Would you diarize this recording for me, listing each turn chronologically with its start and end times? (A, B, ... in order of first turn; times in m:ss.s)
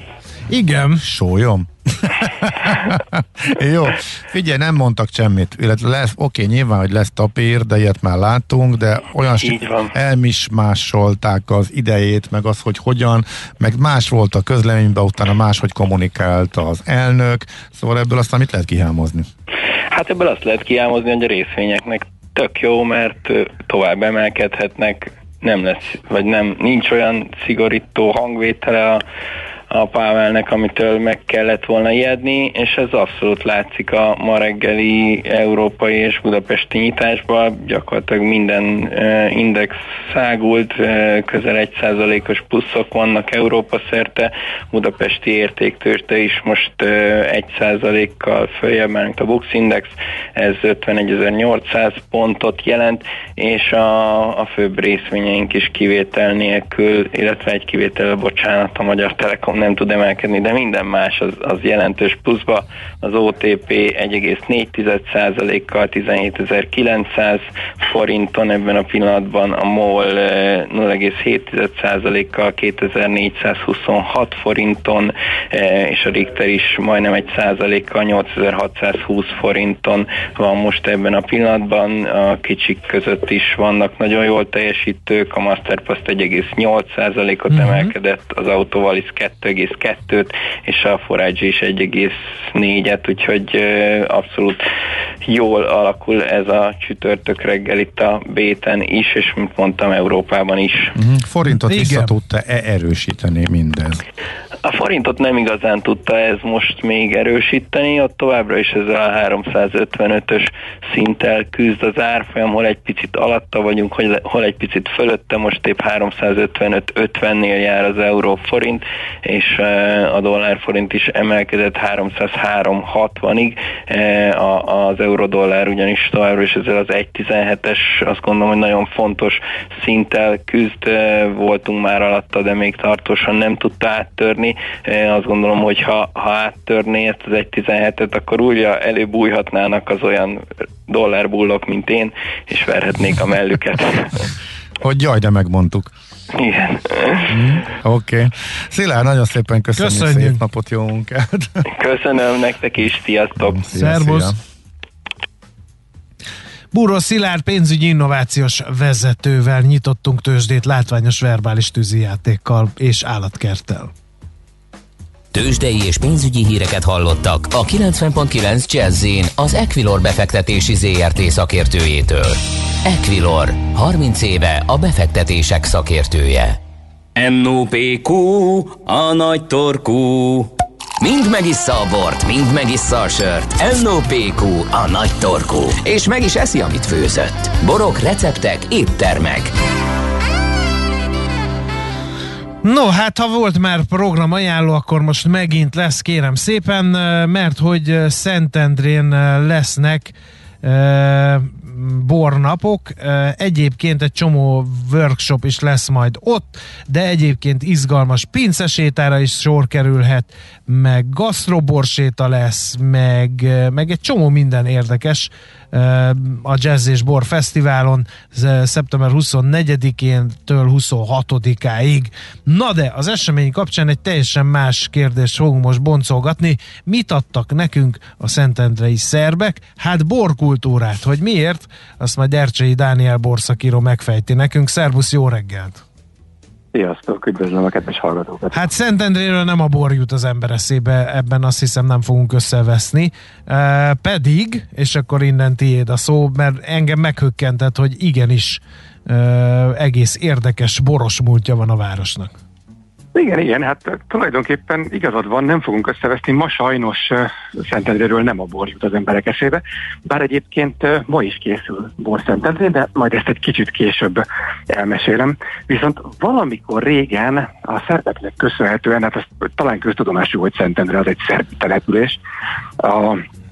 0:00.5-0:01.0 A
0:01.0-0:19.3 B
0:09.4-0:09.9 C
0:19.9-0:29.0 C
0:29.7-1:34.6 C
1:27.5-1:27.9 A
1:35.2-1:40.9 C
1:41.0-1:44.0 B
1:41.5-1:42.2 A
1:44.6-2:24.3 C
2:24.8-2:25.9 B
2:26.3-2:27.3 C
2:27.3-2:31.7 B
2:29.8-2:30.4 A
2:31.7-2:33.6 C
2:33.4-2:34.4 B
2:33.7-2:34.3 A
2:36.7-2:43.9 A
2:45.3-2:56.6 D
2:57.2-3:09.5 D
3:12.6-3:55.8 A
3:56.7-3:58.6 E
3:58.5-4:12.3 A
4:13.2-4:32.2 E
4:32.8-4:33.2 E